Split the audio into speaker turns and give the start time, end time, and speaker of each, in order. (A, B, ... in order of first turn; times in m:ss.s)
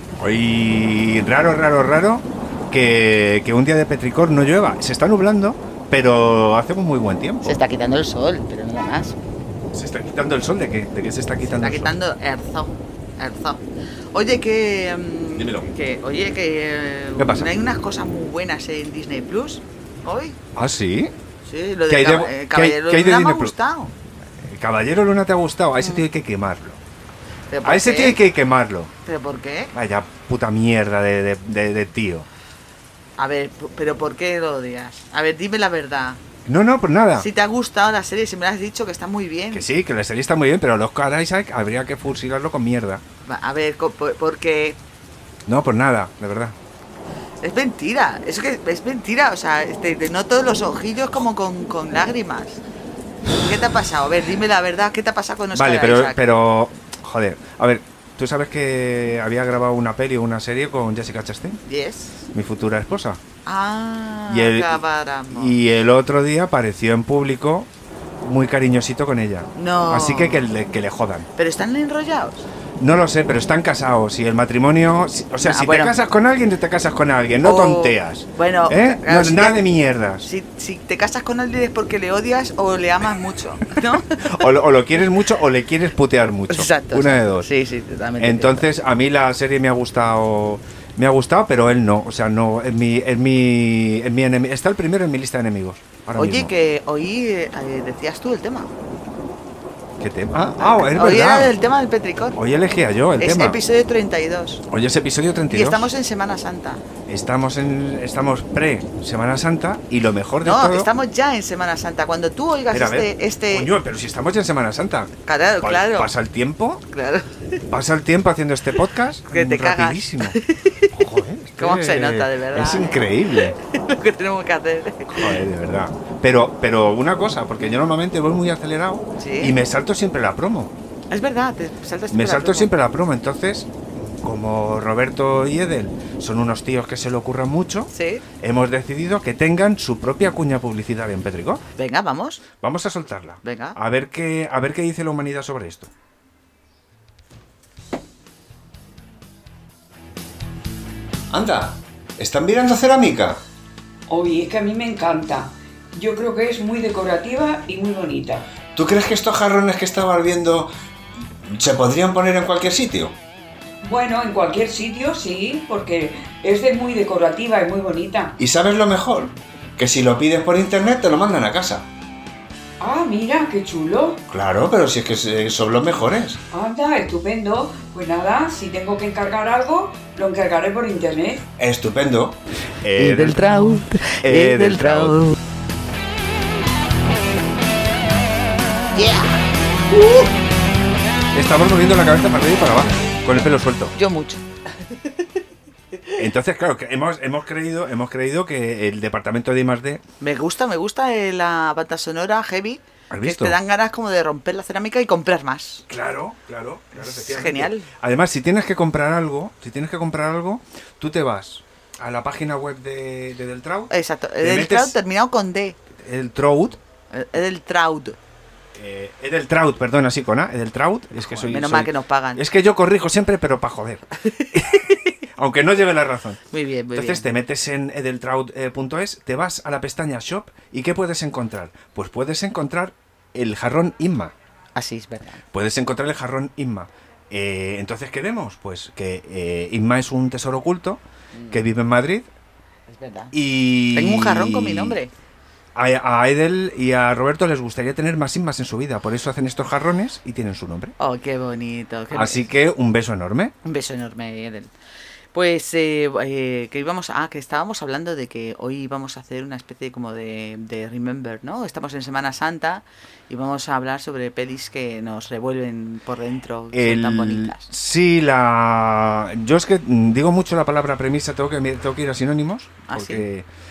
0:00.2-0:07.6 A
0:07.4-0:09.2 B
0:09.7-0:11.9 A
0:11.4-0:20.4 B
0:15.4-0:15.7 A
0:17.2-0:17.5 A
0:20.6-0:21.1 A
0:21.4-0:23.9 B
0:21.9-0:23.5 A
0:24.4-0:26.8 A
0:27.5-0:28.2 B
0:27.6-0:28.9 A
0:29.0-0:29.7 B
0:29.7-0:32.3 A
0:33.2-0:36.2 B
0:36.5-0:37.3 A
0:37.2-0:39.6 B
0:39.5-0:43.0 A
0:43.2-0:44.8 B
0:45.5-0:46.6 A
0:47.4-0:52.6 B
0:53.3-0:56.2 B
0:55.5-1:01.6 A
1:01.6-1:02.2 B
1:02.3-1:03.2 A
1:03.4-1:05.6 B
1:04.3-1:04.8 A
1:05.3-1:07.7 A
1:08.2-1:11.3 A
1:09.6-1:10.5 B
1:11.4-1:12.5 B
1:12.8-1:20.3 A
1:15.4-1:16.0 B
1:17.4-1:19.6 B
1:20.2-1:24.4 B
1:24.2-1:27.5 A
1:26.5-1:28.7 B
1:28.2-1:36.5 A
1:36.2-1:38.7 B
1:40.0-1:41.6 A
1:40.5-1:42.4 B
1:42.4-1:43.6 A
1:43.2-1:44.6 B
1:44.7-1:45.9 A
1:45.5-1:46.8 B
1:47.1-1:50.9 A
1:50.4-1:53.7 B
1:52.7-1:56.8 A
1:55.3-1:56.1 B
1:56.9-1:57.6 B
1:57.7-2:00.4 A
1:59.3-2:01.0 B
2:00.9-2:03.6 A
2:01.6-2:05.4 B
2:05.1-2:10.7 A
2:09.2-2:09.6 B
2:11.1-2:12.7 B
2:12.1-2:21.6 A
2:17.9-2:18.2 B
2:21.8-2:22.4 B
2:22.6-2:25.9 A
2:23.4-2:23.8 B
2:31.3-2:33.4 A
2:34.1-2:38.5 C
2:38.8-2:40.7 A
2:41.5-2:43.2 A
2:43.8-2:48.4 C
2:48.4-2:51.9 A
2:52.8-2:54.2 C
2:54.3-2:56.4 A
2:56.5-3:01.4 C
3:01.6-3:03.6 A
3:03.0-3:05.4 B
3:04.2-3:05.2 A
3:08.9-3:09.4 B
3:09.9-3:10.2 B
3:11.3-3:14.0 A
3:14.0-3:15.2 B
3:16.2-3:20.0 A
3:20.2-3:25.8 B
3:23.1-3:23.6 A
3:25.9-3:35.0 A
3:27.0-3:27.9 B
3:33.9-3:35.8 B
3:36.0-3:36.8 A
3:37.1-3:38.2 B
3:38.7-3:46.4 A
3:41.3-3:42.4 B
3:44.2-3:45.0 B
3:46.5-3:47.3 B
3:46.9-3:54.3 A
3:54.8-3:55.4 B
3:55.5-4:02.3 A
4:01.3-4:01.6 B
4:02.9-4:03.3 B
4:03.3-4:05.0 A
4:03.9-4:05.1 B
4:05.8-4:11.0 A
4:11.0-4:12.5 B
4:12.1-4:13.6 A
4:13.6-4:14.7 B
4:15.3-4:27.7 B
4:26.7-4:33.5 A
4:32.9-4:33.2 B